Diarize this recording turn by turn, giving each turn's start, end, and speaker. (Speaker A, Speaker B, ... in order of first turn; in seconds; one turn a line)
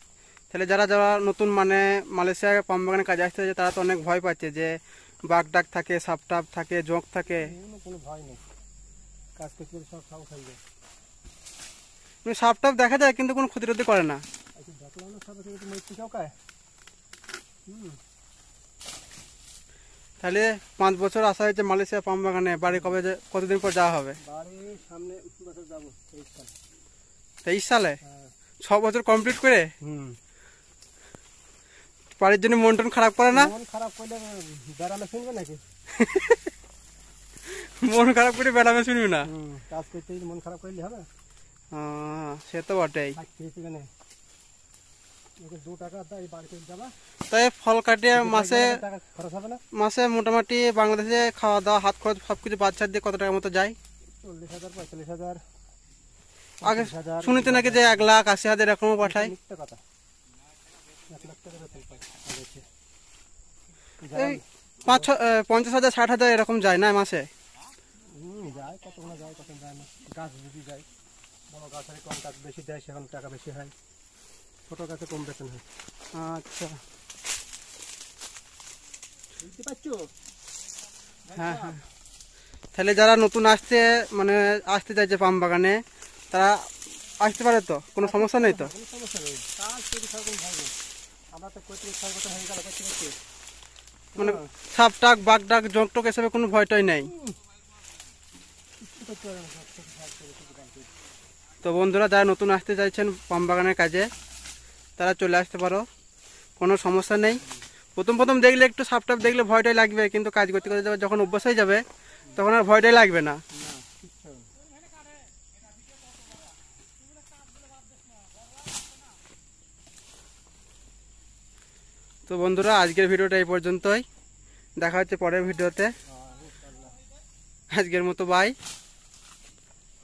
Speaker A: 0.5-7.5
Speaker B: 7.3-8.4
Speaker B: 9.4-10.6
Speaker A: 12.2-14.2
Speaker B: 14.6-16.3
Speaker B: 17.7-18.0
Speaker A: 20.2-24.2
Speaker B: 24.2-26.5
Speaker A: 27.4-28.0
Speaker B: 28.0-28.3
Speaker A: 28.6-29.7
Speaker B: 29.8-30.2
Speaker A: 32.2-33.5
Speaker B: 33.3-35.6
Speaker A: 35.9-36.4
Speaker A: 37.4-39.3
Speaker B: 39.2-41.1
Speaker A: 41.7-43.2
Speaker B: 43.1-43.9
Speaker B: 45.4-46.9
Speaker A: 47.3-48.8
Speaker B: 48.1-49.6
Speaker A: 49.7-53.8
Speaker B: 54.2-55.4
Speaker B: 56.6-58.1
Speaker A: 56.6-59.3
Speaker B: 59.0-59.8
Speaker B: 61.1-62.6
Speaker B: 64.0-65.1
Speaker A: 64.1-67.3
Speaker B: 68.1-70.8
Speaker B: 71.5-73.7
Speaker B: 74.7-75.6
Speaker A: 76.1-76.8
Speaker B: 79.4-80.1
Speaker B: 81.2-81.8
Speaker A: 81.4-81.8
Speaker A: 82.7-85.8
Speaker A: 86.3-86.7
Speaker A: 87.2-88.7
Speaker B: 88.0-90.7
Speaker B: 91.3-93.1
Speaker B: 94.1-94.5
Speaker A: 94.2-97.1
Speaker B: 97.1-97.4
Speaker B: 98.8-100.9
Speaker A: 101.6-104.1
Speaker A: 105.0-105.8
Speaker A: 106.6-107.4
Speaker A: 108.0-111.8
Speaker A: 112.3-113.4
Speaker B: 113.5-114.5
Speaker A: 122.3-124.0
Speaker A: 124.8-125.9
Speaker B: 126.1-127.0
Speaker A: 127.7-128.5